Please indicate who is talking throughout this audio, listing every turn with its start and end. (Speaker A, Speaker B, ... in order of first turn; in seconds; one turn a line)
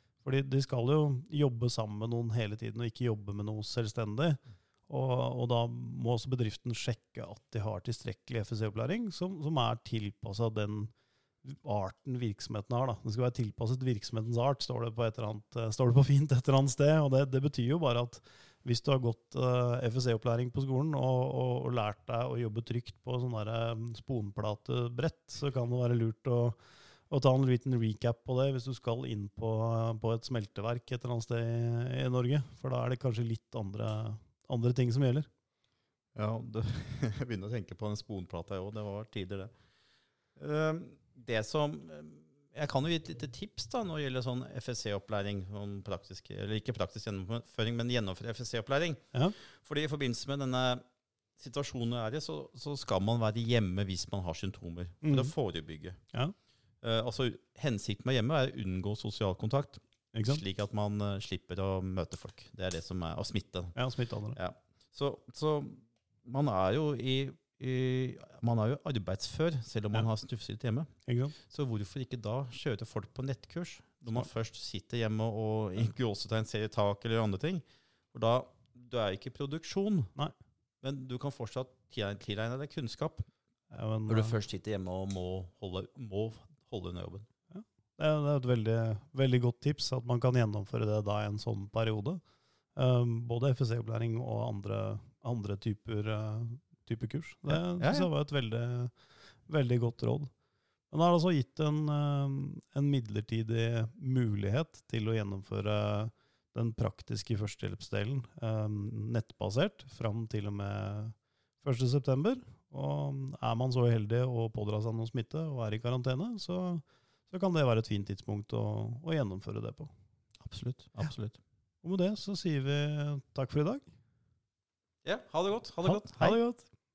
Speaker A: 0.2-10.9
Speaker A: 11.4-26.6
Speaker A: 27.1-35.3
Speaker B: 36.2-39.5
Speaker B: 40.4-50.8
Speaker B: 51.4-56.0
Speaker A: 55.0-55.3
Speaker B: 56.8-63.8
Speaker A: 60.1-60.4
Speaker A: 63.8-64.4
Speaker B: 64.3-70.9
Speaker A: 71.1-71.3
Speaker B: 71.5-80.1
Speaker B: 80.8-83.3
Speaker A: 83.7-84.4
Speaker B: 84.1-87.3
Speaker A: 87.5-92.2
Speaker A: 92.8-98.9
Speaker B: 97.5-98.1
Speaker A: 99.5-100.3
Speaker A: 100.9-119.9
Speaker B: 120.4-121.4
Speaker A: 121.8-123.9
Speaker B: 125.0-126.4
Speaker A: 125.8-126.7